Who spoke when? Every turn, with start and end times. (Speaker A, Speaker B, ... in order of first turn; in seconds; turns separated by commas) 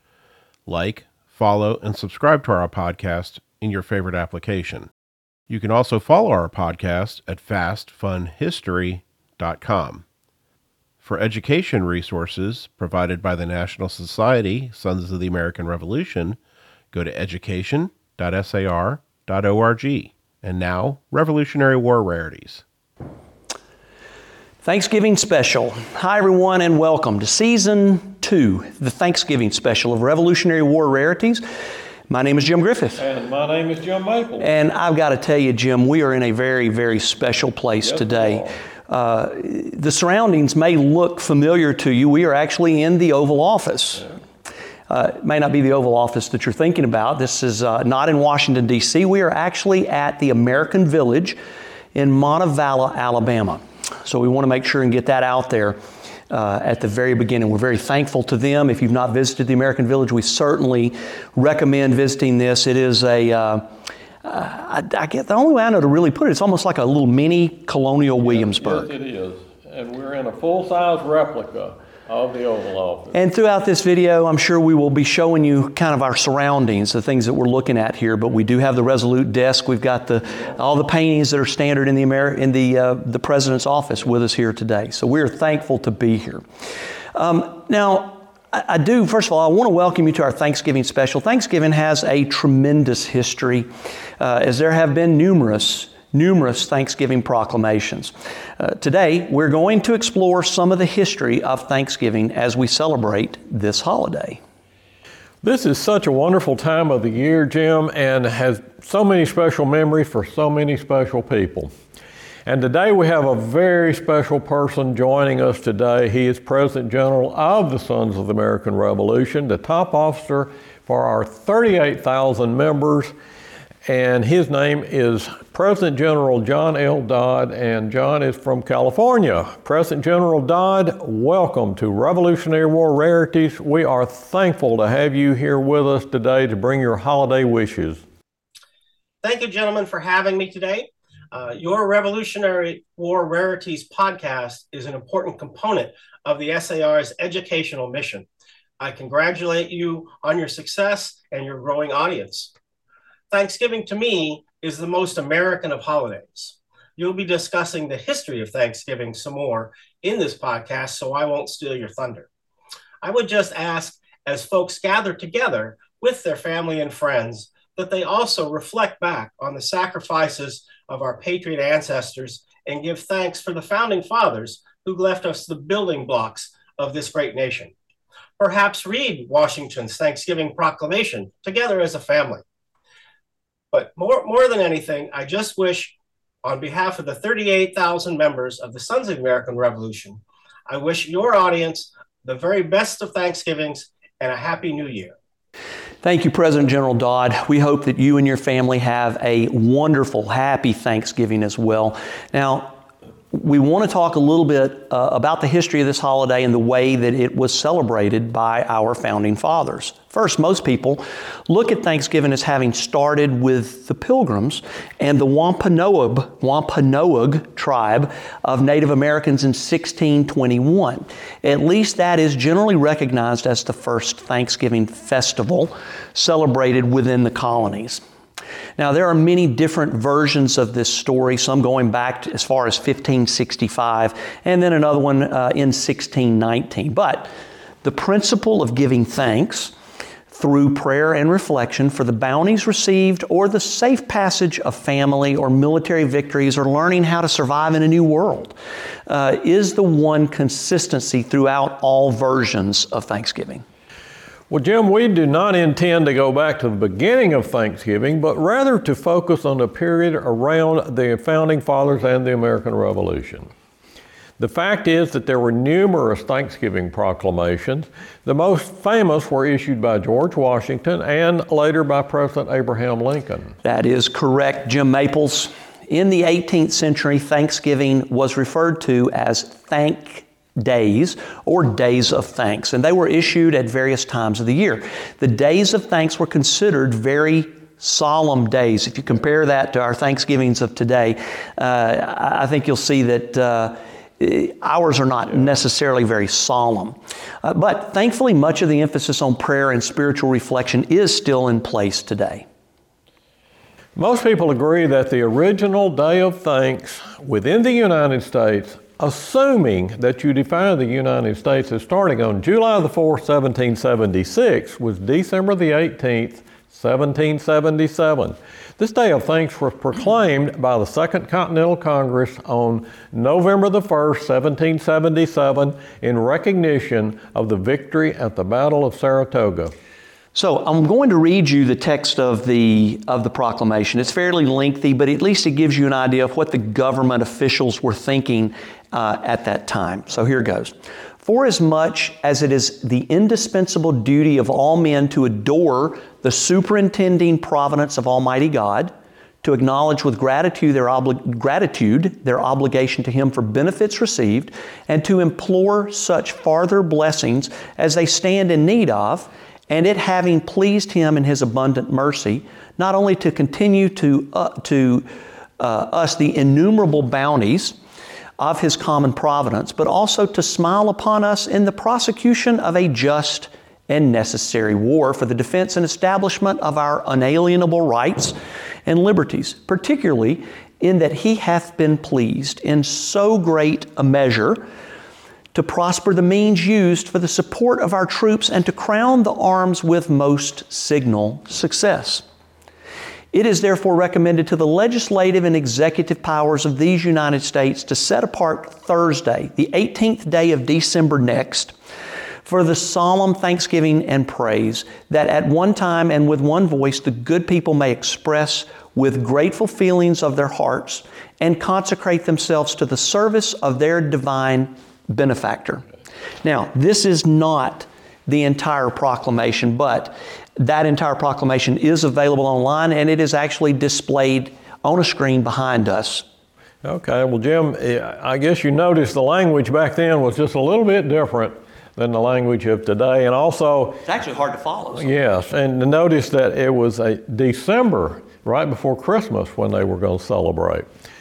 Speaker A: 0.7-4.9, Speaker A: 5.5-10.0, Speaker A: 11.0-16.4, Speaker A: 16.9-22.6, Speaker B: 24.6-31.4, Speaker B: 32.1-33.0, Speaker C: 33.0-34.5, Speaker B: 34.4-44.1, Speaker C: 37.8-38.5, Speaker B: 44.9-51.4, Speaker B: 51.9-55.8, Speaker B: 56.3-63.6, Speaker B: 64.2-68.9, Speaker C: 68.2-73.2, Speaker B: 73.1-86.4, Speaker B: 87.1-93.7, Speaker B: 94.2-104.4, Speaker C: 105.4-111.7, Speaker C: 112.5-123.1, Speaker C: 123.8-138.0, Speaker D: 139.2-148.3, Speaker D: 148.8-152.5, Speaker D: 153.3-162.3, Speaker D: 163.0-177.7, Speaker D: 178.4-182.4, Speaker D: 183.7-195.1, Speaker B: 196.0-202.8, Speaker B: 203.3-228.0, Speaker B: 228.8-237.3, Speaker B: 237.8-239.7, Speaker B: 240.3-248.5, Speaker B: 249.1-253.6, Speaker C: 254.5-263.5, Speaker C: 264.4-273.5, Speaker B: 273.6-302.4, Speaker C: 303.9-329.7, Speaker B: 330.3-365.1, Speaker B: 365.6-367.8, Speaker B: 368.4-384.6, Speaker B: 385.5-392.2, Speaker B: 393.3-401.7, Speaker B: 402.4-415.8, Speaker B: 416.4-426.2, Speaker C: 426.8-434.0, Speaker B: 434.0-435.1, Speaker C: 434.9-440.9